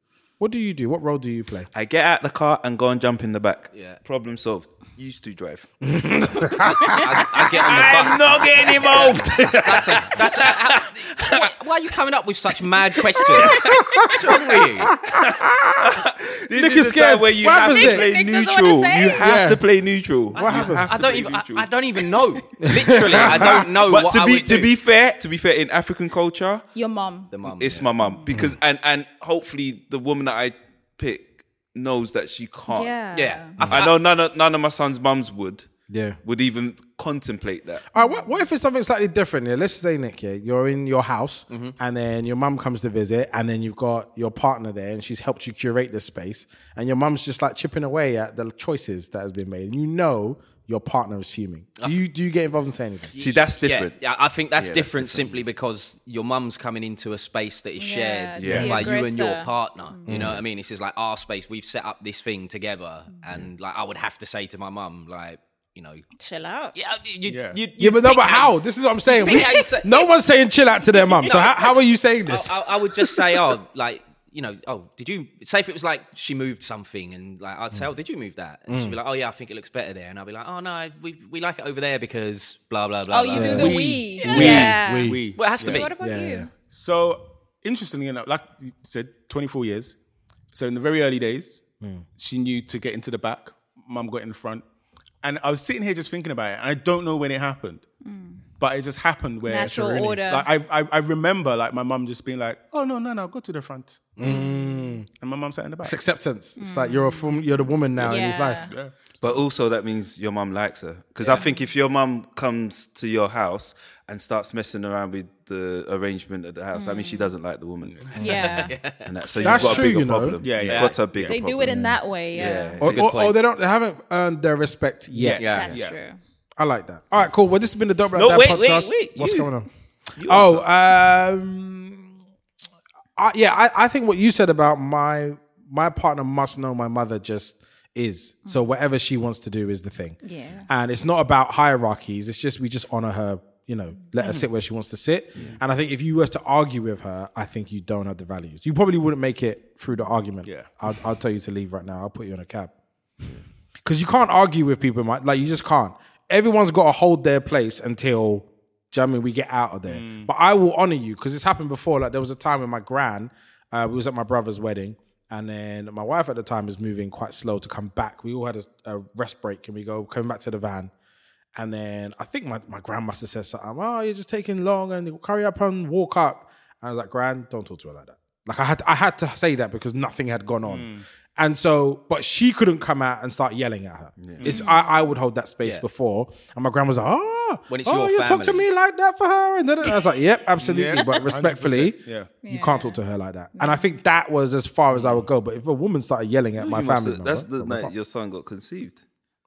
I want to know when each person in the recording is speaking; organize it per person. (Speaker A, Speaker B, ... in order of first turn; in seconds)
Speaker A: 0.4-1.7, 5.8-7.0, 13.4-13.8, 14.9-15.8, 16.5-18.1, 19.2-19.7, 20.2-20.9, 23.3-23.6, 28.3-28.6, 35.9-36.2, 37.9-53.1, 60.1-60.4, 67.8-72.5, 78.7-79.0, 83.3-86.5, 91.8-92.1, 104.2-105.1, 105.8-108.7, 119.4-120.4, 121.6-122.0, 122.8-125.7, 126.6-132.1, 133.2-152.7, 153.8-170.9, 171.6-197.9
Speaker B: 1.7-5.8, 7.5-11.4, 15.8-21.7, 23.1-26.7, 27.5-33.0, 33.6-37.9, 53.2-55.4, 58.4-58.9, 109.2-118.2, 119.0-123.2, 128.2-129.5, 130.2-130.7, 184.2-184.5, 196.6-199.0
Speaker C: 3.7-4.0, 7.0-9.1, 9.6-14.9, 20.3-24.7, 27.3-27.9, 33.1-34.0, 41.5-41.8, 53.1-66.0, 66.7-68.5, 69.2-69.9, 71.2-71.6, 72.3-84.7, 85.3-85.9, 118.3-119.6, 120.6-121.0, 122.3-123.4, 125.4-125.7, 187.7-188.7, 194.9-195.2
Speaker D: 17.5-19.3, 26.7-27.3, 28.0-28.3, 32.7-33.5, 38.0-38.5, 57.8-60.0, 66.2-66.8, 69.2-70.0, 71.2-71.5, 83.1-86.5, 98.0-98.5, 99.4-100.5, 104.2-104.8, 106.6-107.5, 108.0-108.7, 116.7-117.3, 118.2-118.8, 121.2-122.8, 125.5-126.2, 140.2-140.7, 184.4-184.9, 192.4-193.0, 193.6-193.9
Speaker E: 67.3-67.6, 83.6-85.9, 86.7-90.0, 90.5-94.7, 95.2-97.9, 98.6-104.6, 105.2-106.0, 108.0-109.4, 117.8-118.2, 119.4-121.6, 125.2-126.0, 144.2-144.5, 150.4-150.7, 159.9-160.3, 180.7-181.1, 190.6-192.3